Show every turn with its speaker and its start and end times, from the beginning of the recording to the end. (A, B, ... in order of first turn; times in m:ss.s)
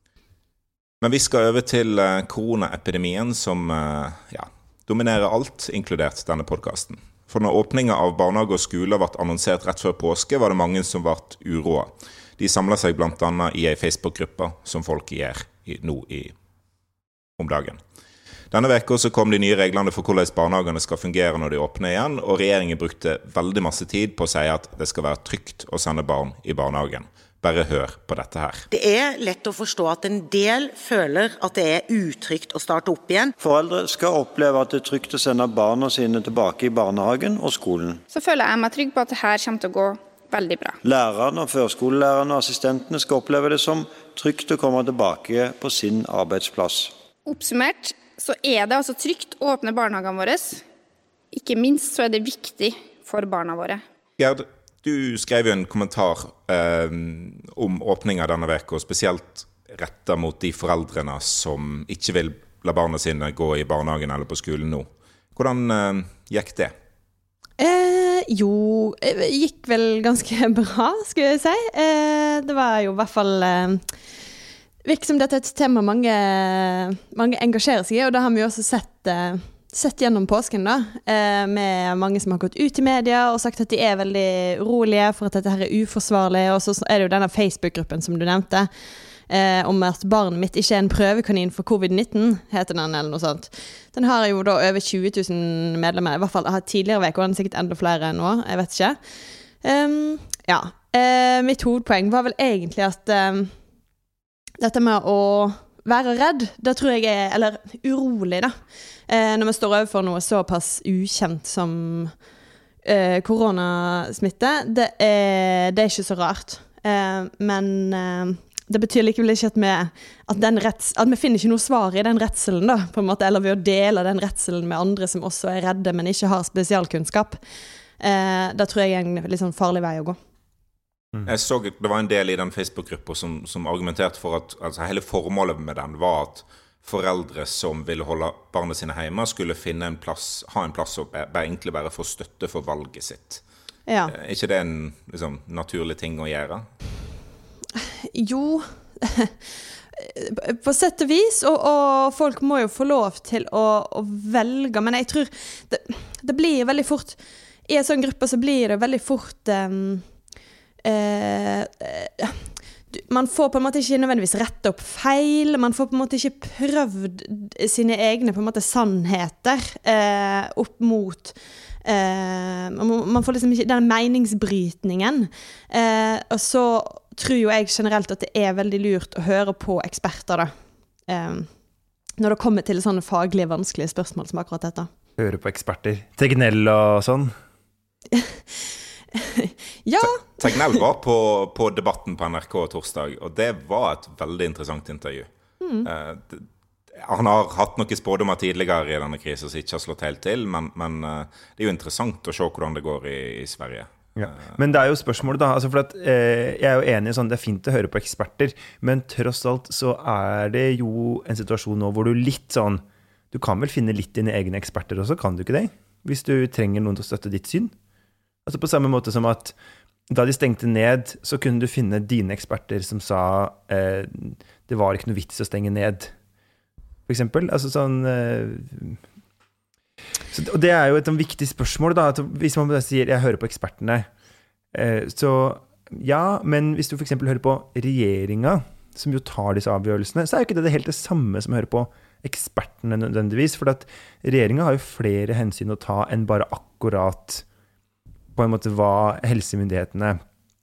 0:01.0-0:16.3 A
0:17.4-0:17.8 A
0:18.5-0:28.7 A
0:28.7-0:33.3 B
0:33.4-0:38.0 C
0:38.1-0:40.8 D
0:40.8-0:46.9 C
0:47.3-0:50.6 D
0:51.3-0:53.8 D
0:54.2-1:06.7 A
1:07.6-1:13.8 E
1:14.8-1:28.7 E
1:29.3-1:39.0 E
1:39.6-1:43.5 E
1:44.6-1:48.6 E
1:49.1-1:52.2 E
1:52.8-2:07.4 E
2:08.0-2:10.2 E
2:11.2-2:23.4 A
2:23.9-2:24.1 E
2:24.1-2:26.7 A
2:27.8-2:29.3 E
2:30.0-2:40.0 E
2:40.8-3:00.5 E
3:01.1-3:01.5 E
3:02.2-3:04.9 E
3:05.2-3:07.3 F
3:09.1-3:10.8 E
3:10.0-3:15.3 A
3:15.6-3:15.9 E
3:15.8-3:24.5 A
3:24.2-3:37.7 F
3:38.4-3:39.6 F
3:40.1-3:46.1 F
3:47.1-3:49.0 F
3:50.3-3:54.1 F
3:54.7-4:07.4 F
4:08.3-4:10.2 F